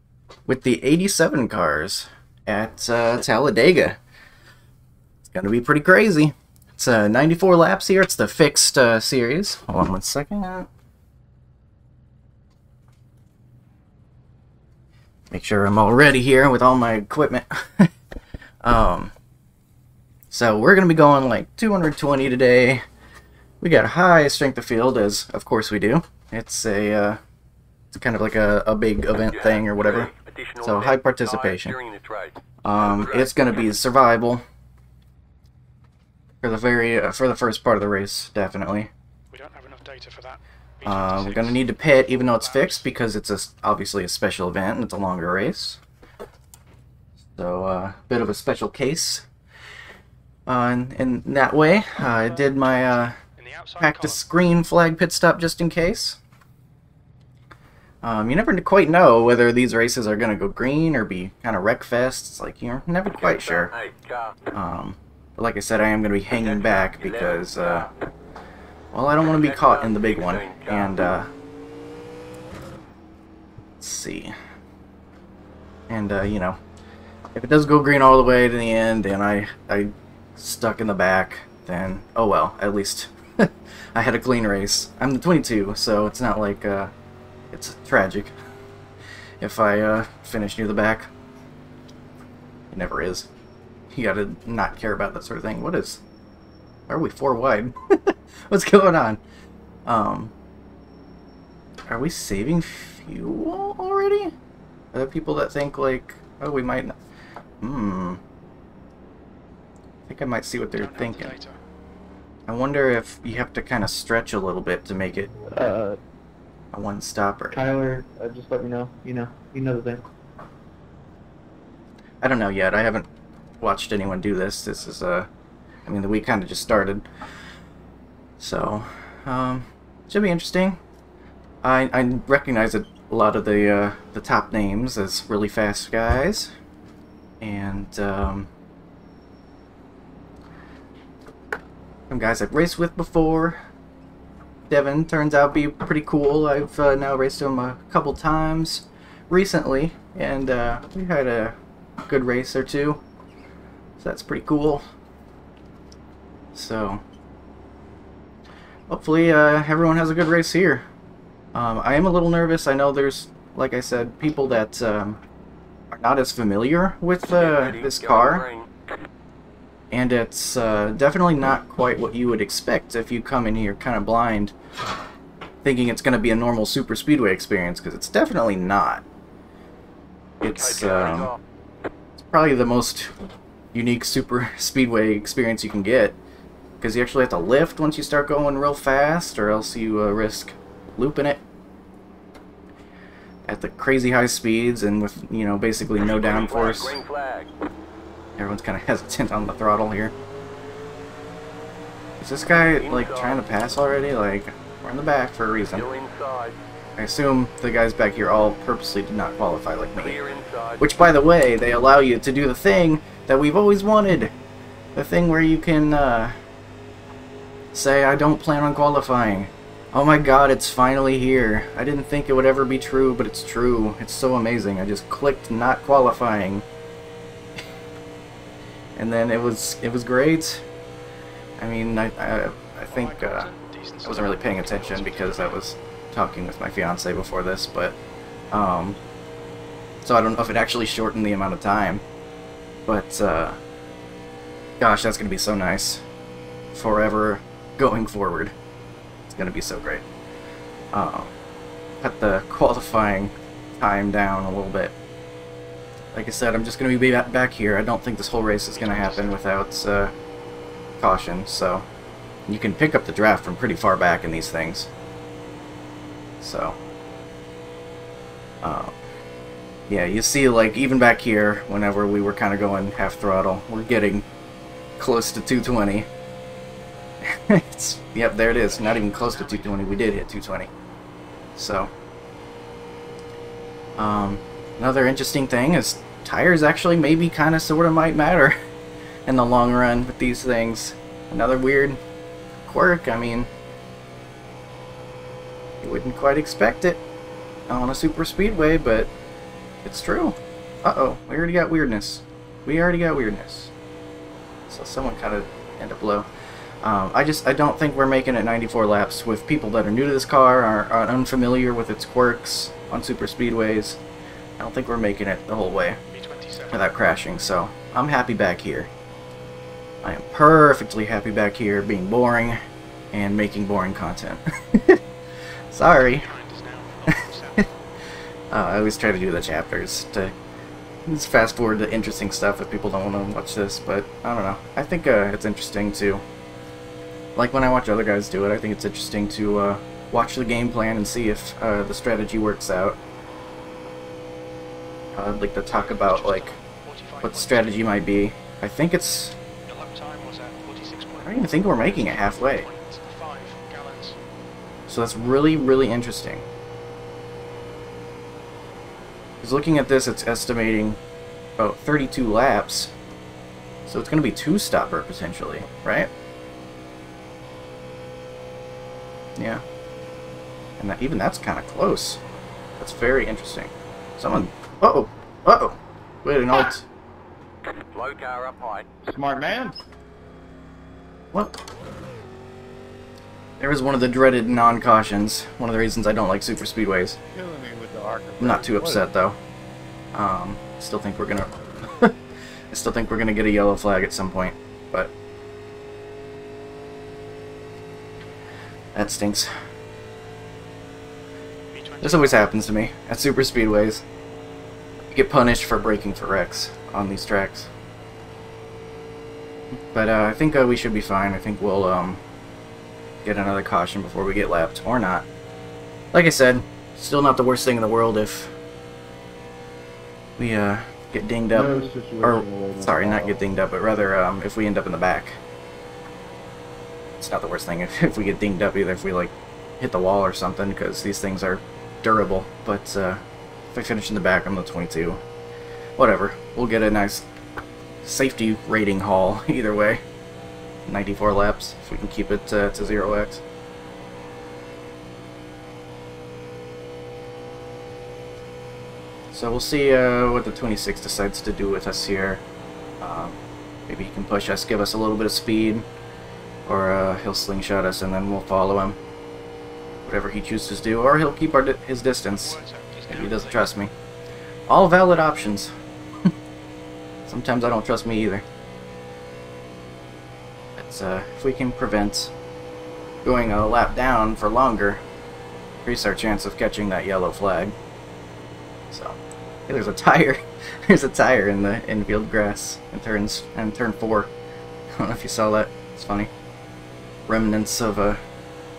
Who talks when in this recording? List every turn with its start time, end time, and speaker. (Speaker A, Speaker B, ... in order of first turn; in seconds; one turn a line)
Speaker A: 0.5-4.0
Speaker A: 5.2-10.7
Speaker A: 15.3-17.9
Speaker A: 18.6-19.1
Speaker A: 20.3-22.8
Speaker A: 23.6-27.2
Speaker A: 27.9-31.8
Speaker B: 29.3-33.4
Speaker A: 32.6-34.5
Speaker A: 36.4-38.9
Speaker C: 39.3-42.9
Speaker A: 40.8-45.8
Speaker A: 47.4-49.3
Speaker A: 50.5-53.2
Speaker C: 52.0-54.2
Speaker A: 53.8-56.2
Speaker A: 58.0-63.7
Speaker B: 63.1-64.4
Speaker A: 64.5-67.9
Speaker B: 66.3-67.9
Speaker A: 68.9-71.3
Speaker B: 69.2-70.9
Speaker A: 73.8-74.3
Speaker A: 75.9-76.6
Speaker A: 77.3-86.9
Speaker A: 87.5-88.3
Speaker A: 89.4-91.1
Speaker A: 92.7-93.3
Speaker A: 93.9-96.0
Speaker A: 96.9-99.2
Speaker A: 99.9-100.3
Speaker A: 101.9-104.3
Speaker A: 104.9-107.0
Speaker A: 107.6-108.2
Speaker A: 110.1-111.4
Speaker C: 110.7-111.6
Speaker A: 112.5-115.3
Speaker D: 115.4-116.0
Speaker A: 116.7-117.6
Speaker D: 117.5-120.0
Speaker A: 122.2-123.1
Speaker A: 123.6-125.3
Speaker A: 125.8-127.1
Speaker A: 128.4-130.8
Speaker A: 131.6-136.5
Speaker A: 137.4-138.5
Speaker A: 142.1-143.6
Speaker A: 144.7-153.0
Speaker A: 154.0-154.9
Speaker A: 156.5-157.0
Speaker A: 158.9-160.9
Speaker A: 161.5-165.2
Speaker A: 165.9-168.4
Speaker B: 167.3-168.7
Speaker A: 169.9-174.6
Speaker A: 175.6-179.1
Speaker A: 180.4-181.3
Speaker B: 180.5-181.4
Speaker A: 182.2-183.2
Speaker A: 183.7-186.2
Speaker A: 186.8-191.4
Speaker A: 193.4-197.0
Speaker B: 196.0-197.5
Speaker A: 198.4-200.1
Speaker A: 202.2-205.8
Speaker B: 202.8-203.6
Speaker B: 205.7-206.6
Speaker A: 207.0-210.2
Speaker B: 210.0-210.9
Speaker A: 210.8-214.3
Speaker A: 214.9-216.4
Speaker A: 217.7-226.7
Speaker A: 229.0-230.6
Speaker A: 231.6-233.5
Speaker C: 232.9-235.6
Speaker A: 234.0-238.0
Speaker A: 238.5-239.0
Speaker A: 240.0-242.0
Speaker A: 242.9-243.6
Speaker A: 244.8-246.0
Speaker A: 246.7-248.5
Speaker A: 249.3-250.1
Speaker A: 250.9-251.3
Speaker A: 252.0-254.9
Speaker A: 256.1-260.1
Speaker C: 258.7-259.4
Speaker A: 261.0-261.9
Speaker A: 262.5-264.9
Speaker A: 266.4-266.8
Speaker A: 268.6-269.0
Speaker A: 269.9-274.3
Speaker A: 275.0-276.1
Speaker A: 277.2-280.7
Speaker C: 278.5-279.8
Speaker A: 281.6-281.9
Speaker A: 284.0-288.6
Speaker A: 289.3-292.0
Speaker A: 292.7-293.5
Speaker A: 295.8-297.0
Speaker A: 297.7-299.1
Speaker A: 299.8-303.7
Speaker A: 304.7-306.3
Speaker A: 306.8-314.0
Speaker A: 314.6-316.0
Speaker C: 316.1-316.9
Speaker A: 316.7-318.9
Speaker A: 320.0-322.6
Speaker A: 323.1-325.0
Speaker A: 325.7-326.3
Speaker C: 325.9-327.8
Speaker A: 327.1-327.6
Speaker A: 328.5-330.3
Speaker A: 331.1-336.2
Speaker A: 337.4-343.0
Speaker A: 345.1-346.6
Speaker C: 345.7-347.8
Speaker A: 347.2-349.4
Speaker C: 349.7-354.2
Speaker A: 351.2-352.7
Speaker A: 354.9-356.4
Speaker A: 359.4-361.0
Speaker A: 361.6-362.9
Speaker A: 363.9-366.1
Speaker A: 369.4-369.6
Speaker A: 370.8-372.2
Speaker A: 372.8-376.9
Speaker B: 377.9-378.9
Speaker D: 379.1-379.8
Speaker A: 381.3-381.6
Speaker A: 383.6-387.2
Speaker D: 387.3-389.0
Speaker A: 388.4-389.4
Speaker A: 390.1-392.2
Speaker A: 392.7-395.1
Speaker A: 398.9-399.5
Speaker C: 401.7-402.6
Speaker A: 402.0-404.0
Speaker A: 405.1-407.7
Speaker A: 409.7-412.2
Speaker A: 413.2-415.3
Speaker A: 416.1-418.5
Speaker A: 420.4-425.4
Speaker D: 421.5-423.4
Speaker A: 427.2-433.2
Speaker A: 433.7-435.2
Speaker A: 436.0-437.3
Speaker A: 438.0-440.0
Speaker A: 440.9-443.4
Speaker A: 449.3-452.4
Speaker A: 453.0-455.9
Speaker A: 456.7-459.0
Speaker A: 460.1-462.6
Speaker C: 462.4-463.7
Speaker A: 463.1-463.9
Speaker A: 464.7-465.7
Speaker A: 467.3-468.4
Speaker A: 470.8-472.3
Speaker A: 473.2-475.0
Speaker A: 475.8-477.8
Speaker A: 478.9-484.3
Speaker A: 484.9-486.3
Speaker A: 487.3-488.2